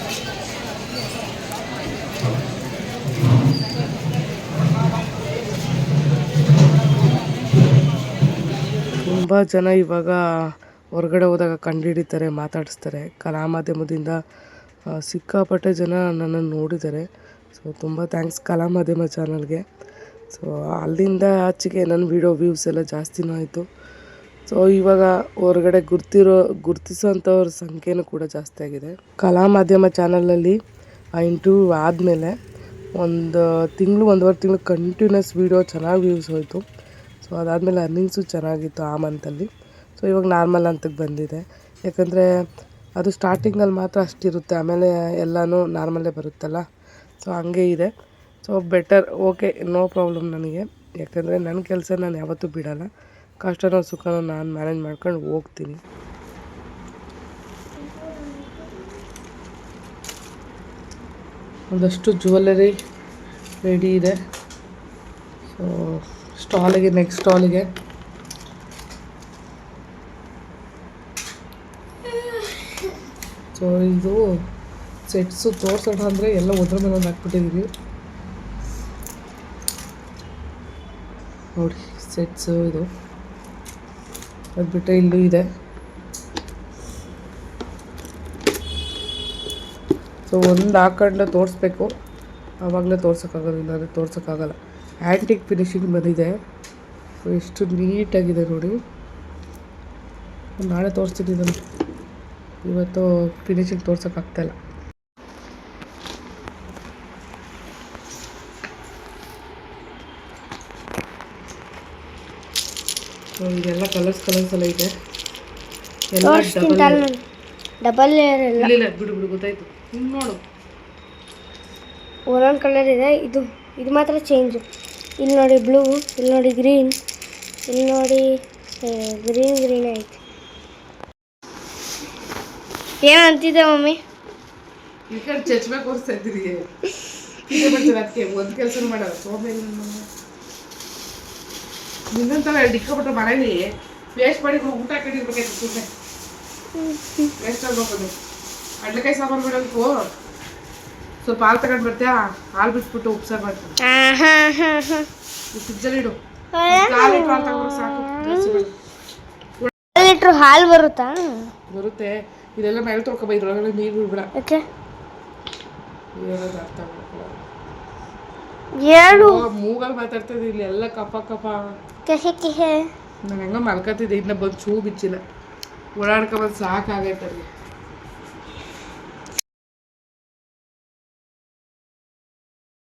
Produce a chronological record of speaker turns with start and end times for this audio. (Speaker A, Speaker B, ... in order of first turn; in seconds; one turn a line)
Speaker A: 9.1-14.2
Speaker A: 14.9-19.6
Speaker A: 20.3-23.6
Speaker A: 24.4-30.6
Speaker A: 31.2-32.3
Speaker A: 33.0-36.6
Speaker A: 37.2-42.2
Speaker A: 43.0-46.6
Speaker A: 47.2-47.9
Speaker A: 48.4-52.9
Speaker A: 53.4-55.8
Speaker B: 57.8-58.9
Speaker A: 61.7-62.7
Speaker A: 63.6-64.2
Speaker A: 65.5-67.7
Speaker A: 73.5-74.2
Speaker A: 75.1-77.7
Speaker A: 81.5-82.9
Speaker A: 84.6-85.5
Speaker A: 90.3-91.9
Speaker A: 92.6-96.3
Speaker A: 97.2-98.8
Speaker A: 100.6-101.6
Speaker A: 102.6-104.5
Speaker A: 113.4-114.9
Speaker A: 116.1-117.0
Speaker B: 116.2-117.2
Speaker B: 117.8-118.7
Speaker A: 118.6-120.4
Speaker B: 122.3-124.7
Speaker B: 125.2-127.0
Speaker B: 127.7-128.2
Speaker B: 128.8-130.2
Speaker B: 133.1-134.0
Speaker A: 135.1-136.7
Speaker A: 137.4-140.1
Speaker B: 137.6-137.9
Speaker A: 142.1-145.9
Speaker B: 146.8-147.3
Speaker A: 147.4-148.1
Speaker A: 148.8-149.9
Speaker A: 151.2-153.8
Speaker B: 153.8-155.1
Speaker A: 155.5-156.2
Speaker B: 156.5-158.6
Speaker A: 156.7-158.7
Speaker B: 159.9-161.5
Speaker A: 161.7-164.3
Speaker B: 164.4-164.6
Speaker A: 166.2-167.3
Speaker B: 168.8-169.4
Speaker A: 169.1-171.7
Speaker B: 172.1-172.9
Speaker A: 173.2-175.2
Speaker A: 175.9-177.5